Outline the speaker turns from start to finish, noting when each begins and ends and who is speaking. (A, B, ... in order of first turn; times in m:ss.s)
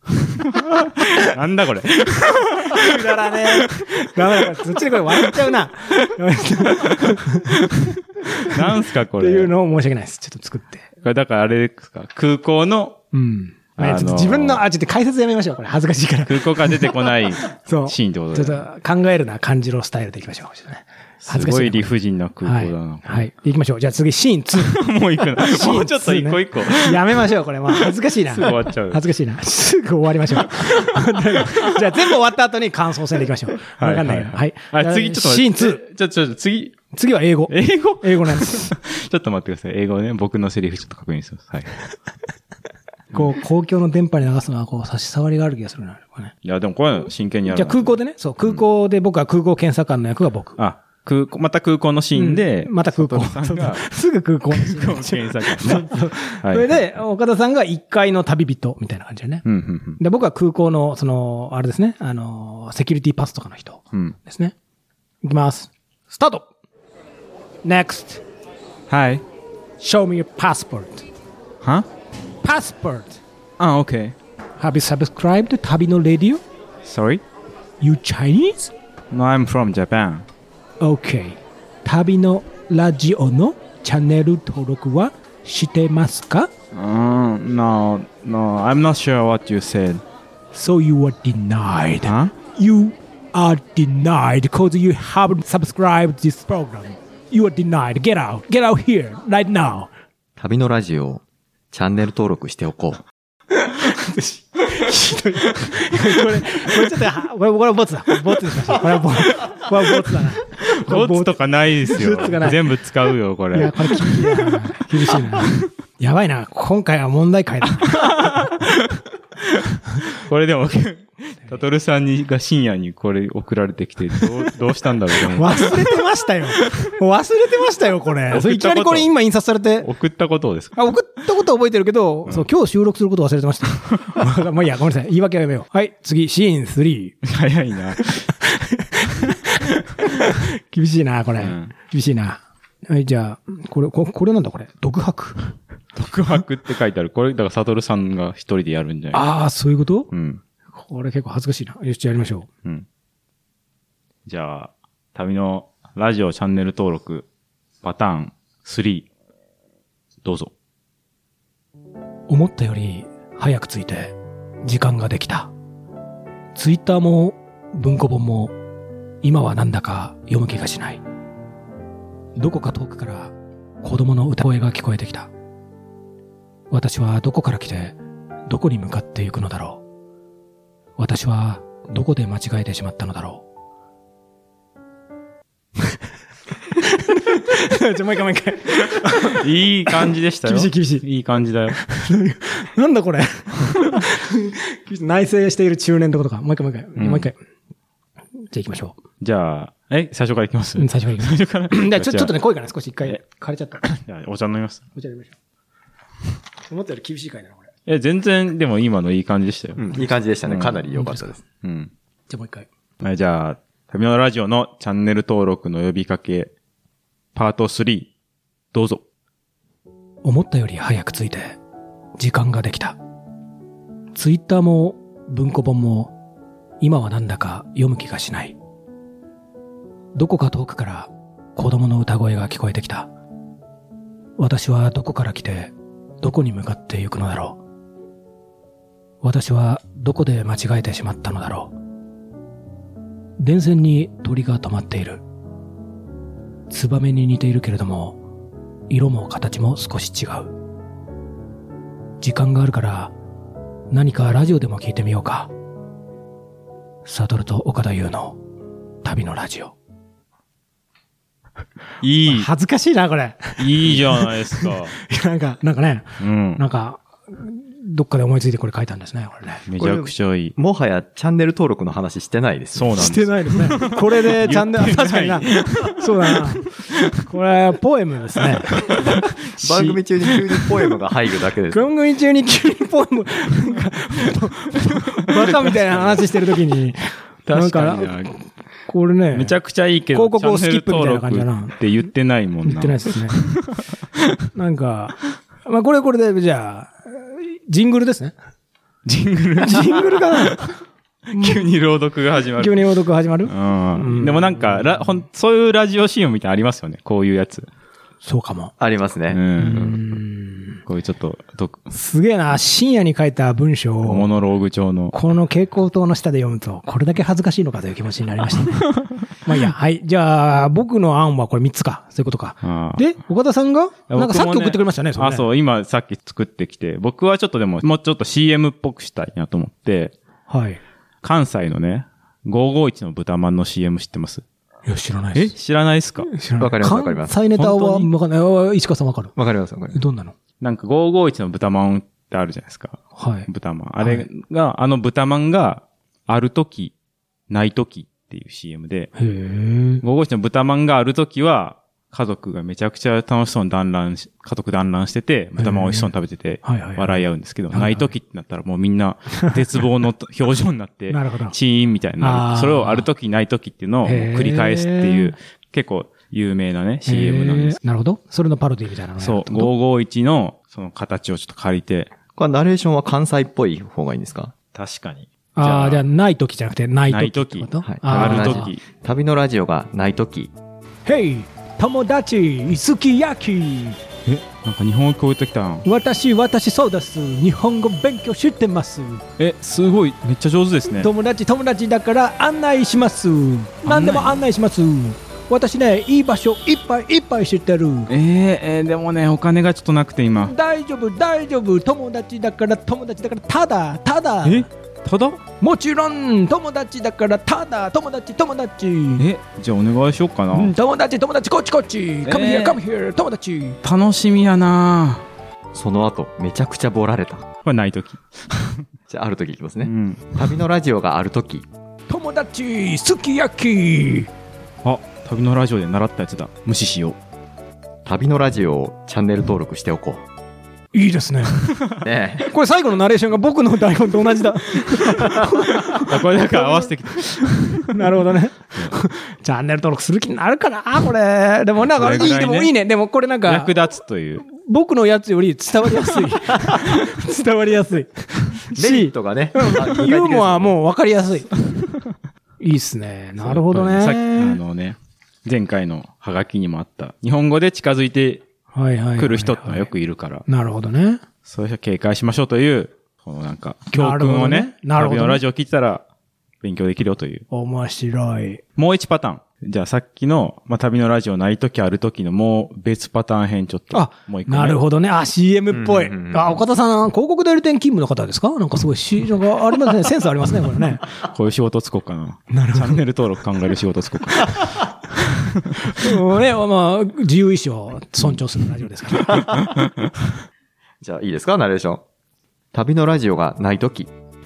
0:00.2-0:05.4 A
0:02.6-0:10.8 B
0:05.9-0:09.5 A
0:11.0-0:13.0 A
0:13.1-0:21.9 B
0:13.8-0:14.6 A
0:16.3-0:18.6 A
0:21.2-0:23.3 A
0:22.4-0:24.8 B
0:24.5-0:27.2 A
0:25.4-0:35.8 B
0:28.2-0:29.0 A
0:30.4-0:32.1 A
0:33.6-0:36.8 A
0:36.9-0:38.7 B
0:37.5-0:41.8 A
0:43.1-0:46.3 B
0:46.4-0:47.9 A
0:47.5-0:50.6 B
0:50.6-0:53.8 A
0:52.2-0:59.4 B
0:54.5-0:56.8 A
0:59.4-1:00.0 A
1:00.0-1:04.5 B
1:05.2-1:06.5 B
1:07.6-1:08.2 B
1:08.9-1:09.2 A
1:09.8-1:11.1 B
1:11.6-1:11.9 A
1:12.4-1:13.2 B
1:13.6-1:14.2 A
1:14.6-1:16.4 B
1:16.8-1:17.2 A
1:17.8-1:18.7 B
1:19.1-1:20.3 A
1:20.8-1:26.5 B
1:26.7-1:30.0 A
1:30.5-1:39.9 B
1:32.0-1:32.3 A
1:40.4-1:43.0 C
1:43.5-1:52.8 B
1:50.5-1:55.7 A
1:53.5-1:58.5 B
1:57.8-2:06.9 A
2:05.2-2:09.9 B
2:08.3-2:09.1 A
2:09.8-2:10.8 A
2:10.8-2:17.2 B
2:17.2-2:18.3 A
2:18.0-2:25.5 B
2:21.4-2:21.7 A
2:26.0-2:29.2 A
2:29.1-2:30.1 B
2:30.1-2:30.4 A
2:30.7-2:32.5 B
2:34.3-2:37.3 A
2:37.8-2:39.1 A
2:40.2-2:40.5 A
2:42.3-2:45.5 B
2:46.6-2:48.5 B
2:49.2-2:51.0 B
2:52.4-2:55.3 B
2:56.7-2:58.0 B
2:58.5-2:59.8 B
3:01.0-3:03.4 B
3:06.7-3:11.0 B
3:09.0-3:11.8 A
3:11.7-3:17.4 B
3:17.0-3:17.3 A
3:18.4-3:19.0 B
3:19.2-3:22.3 A
3:20.8-3:24.0 B
3:23.8-3:24.9 A
3:25.0-3:25.4 B
3:26.7-3:27.7 B
3:27.9-3:29.8 A
3:29.8-3:31.4 C
3:30.5-3:30.8 A
3:31.0-3:31.4 B
3:31.6-3:31.9 A
3:32.3-3:32.7 B
3:33.0-3:36.5 A
3:37.3-3:38.1 A
3:38.7-3:39.0 A
3:40.2-3:41.6 B
3:42.2-3:43.0 B
3:44.1-3:46.1 B
3:46.8-3:48.6 B
3:50.2-3:53.1 B
3:54.4-3:57.6 B
3:59.2-4:01.7 B
4:03.4-4:05.2 B
4:06.7-4:08.2 B
4:08.9-4:10.5 B
4:12.2-4:13.1 B
4:13.9-4:15.5 B
4:17.0-4:18.4 B
4:19.0-4:19.8 B
4:22.0-4:22.5 A
4:22.3-4:29.7 B
4:23.6-4:24.9 A
4:26.2-4:26.6 A
4:29.7-4:30.6 A
4:29.8-4:33.0 C
4:32.7-4:37.2 A
4:33.0-4:39.2 B
4:38.7-4:39.1 A
4:39.6-4:41.9 C
4:41.7-4:49.6 B
4:45.2-4:46.2 A
4:47.5-4:48.3 A
4:49.3-4:54.4 A
4:50.1-4:51.8 B
4:52.6-4:53.4 B
4:54.5-4:58.4 B
4:59.0-5:00.7 A
4:59.6-5:00.7 B
5:01.3-5:02.9 A
5:01.3-5:01.6 B
5:02.6-5:05.1 B
5:03.5-5:07.7 A
5:08.2-5:08.7 B
5:08.8-5:09.5 C
5:09.3-5:10.0 A
5:09.6-5:10.8 B
5:10.9-5:11.8 A
5:11.9-5:14.3 B
5:14.1-5:15.2 A
5:15.1-5:25.5 B
5:22.6-5:23.0 A
5:24.1-5:30.1 A
5:30.5-5:30.8 B
5:31.2-5:34.4 A
5:34.9-5:35.6 B
5:35.4-5:36.3 A
5:36.2-5:39.4 B
5:36.6-5:37.4 C
5:37.5-5:38.1 A
5:39.4-5:40.0 C
5:39.9-5:40.4 B
5:40.6-5:46.9 A
5:43.2-5:43.5 B
5:44.0-5:44.3 B
5:47.5-5:49.1 A
5:49.2-5:50.0 B
5:50.0-6:07.8 A
5:55.6-5:56.1 B
5:56.6-5:58.1 B
6:01.1-6:01.6 B
6:02.2-6:03.1 B
6:04.0-6:05.4 B
6:07.1-6:09.7 B
6:09.2-6:12.2 A
6:12.3-6:14.5 C
6:14.7-6:16.1 A
6:15.6-6:18.7 B
6:17.1-6:18.8 A
6:17.8-6:20.5 C
6:21.1-6:24.0 B
6:24.2-6:25.9 A
6:25.8-6:29.2 B
6:29.4-6:31.1 A
6:31.0-6:38.1 B
6:33.9-6:34.4 A
6:38.1-6:40.6 A
6:40.4-6:44.7 B
6:44.4-6:45.4 A
6:45.6-6:49.3 B
6:49.2-6:50.7 A
6:50.5-6:53.8 B
6:52.2-6:52.8 A
6:53.8-6:55.3 A
6:55.7-6:57.5 C
6:57.6-6:58.9 A
6:59.1-7:01.7 C
6:59.8-7:00.5 A
7:02.1-7:04.3 B
7:04.8-7:07.2 A
7:08.0-7:10.2 C
7:10.9-7:23.8 B
7:12.0-7:12.5 C
7:16.1-7:18.2 A
7:21.9-7:22.7 A
7:23.4-7:24.4 A
7:24.4-7:31.6 B
7:28.8-7:30.7 C
7:31.8-7:32.1 A
7:32.6-7:34.6 B
7:33.4-7:38.4 A
7:38.7-7:39.9 B
7:39.2-7:40.4 A
7:40.5-7:41.2 B
7:41.4-7:46.0 A
7:43.9-7:45.4 B
7:46.6-7:47.4 A
7:47.5-7:48.6 B
7:48.8-7:54.8 A
7:53.9-8:01.1 B
7:55.7-7:56.6 C
8:01.2-8:06.1 A
8:02.5-8:03.0 B
8:04.5-8:04.9 B
8:05.8-8:09.6 B
8:09.5-8:10.1 A
8:11.0-8:12.0 C
8:12.7-8:14.1 C